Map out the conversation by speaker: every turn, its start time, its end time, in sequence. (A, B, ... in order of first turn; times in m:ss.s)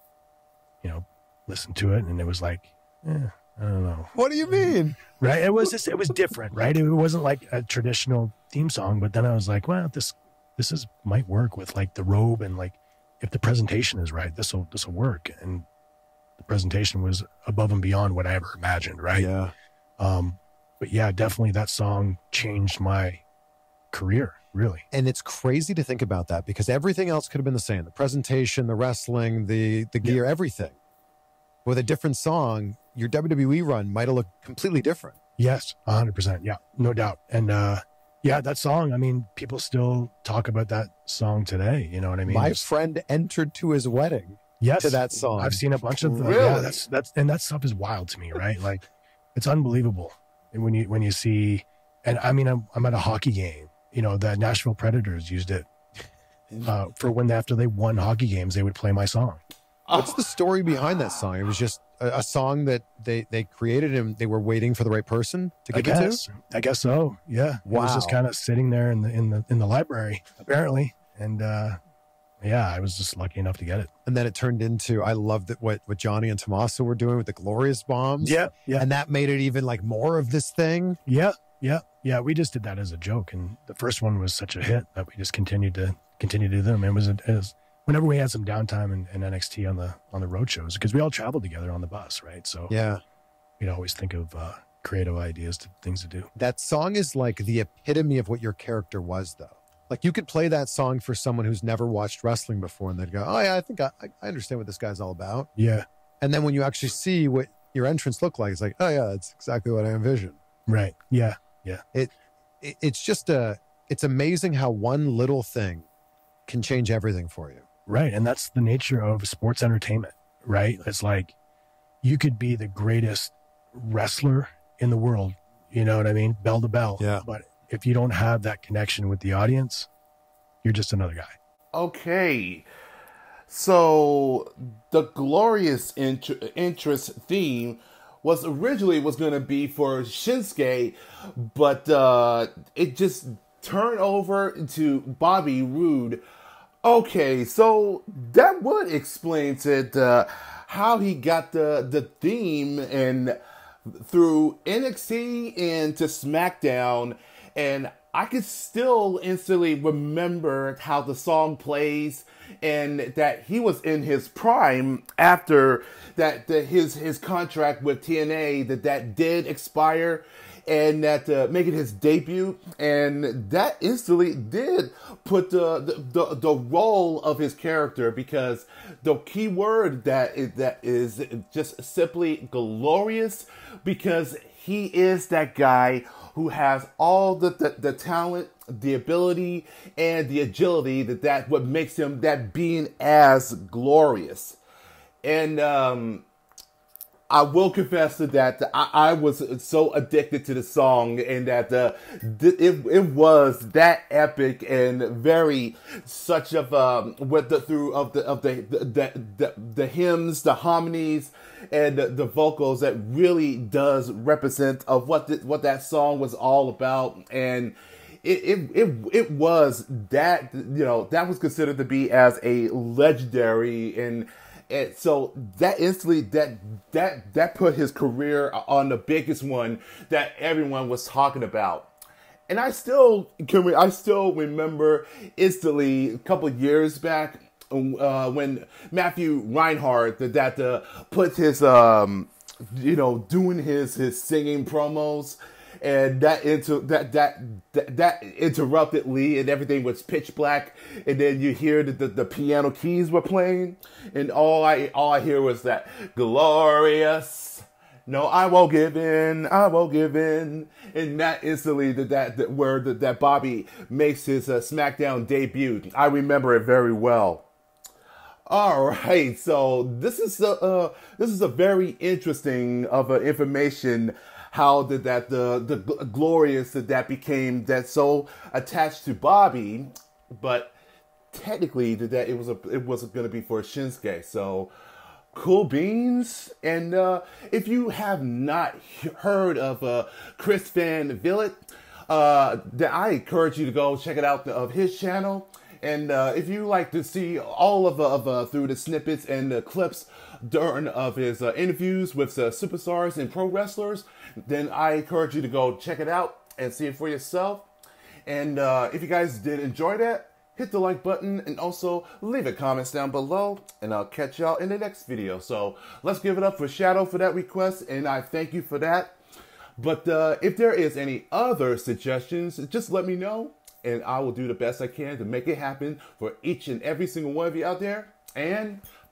0:00.8-0:15.7 A
0:04.1-0:05.0 B
0:16.4-0:19.3 A
0:19.1-0:19.5 B
0:20.0-0:23.2 A
0:23.9-0:24.8 A
0:24.9-0:30.8 B
0:31.6-0:35.2 B
0:35.4-0:42.7 A
0:42.2-0:46.5 B
0:44.6-0:48.8 A
0:46.2-0:46.8 C
0:49.4-0:55.7 A
0:56.6-0:59.4 A
0:59.9-1:01.2 C
0:59.9-1:06.2 B
1:05.7-1:11.8 A
1:07.6-1:08.2 B
1:12.4-1:13.9 A
1:14.1-1:21.0 B
1:18.2-1:18.8 A
1:21.1-1:32.7 A
1:32.7-1:33.0 B
1:33.6-1:36.3 A
1:36.4-1:45.5 B
1:45.6-1:45.8 A
1:46.2-1:50.4 B
1:50.7-1:51.8 A
1:51.9-1:55.9 B
1:56.5-1:57.6 B
1:57.9-2:01.4 A
2:02.0-2:09.9 A
2:07.0-2:07.2 B
2:10.6-2:11.4 A
2:11.7-2:12.7 C
2:13.5-2:26.2 C
2:26.8-2:33.4 C
2:34.0-3:14.6 C
3:15.2-3:16.3 C
3:17.3-3:51.9 C
3:52.5-4:27.5 C
4:28.5-4:40.7 C
4:41.3-4:44.7 C
4:45.3-5:07.7 C
5:08.3-5:19.2 C
5:19.8-5:28.8 C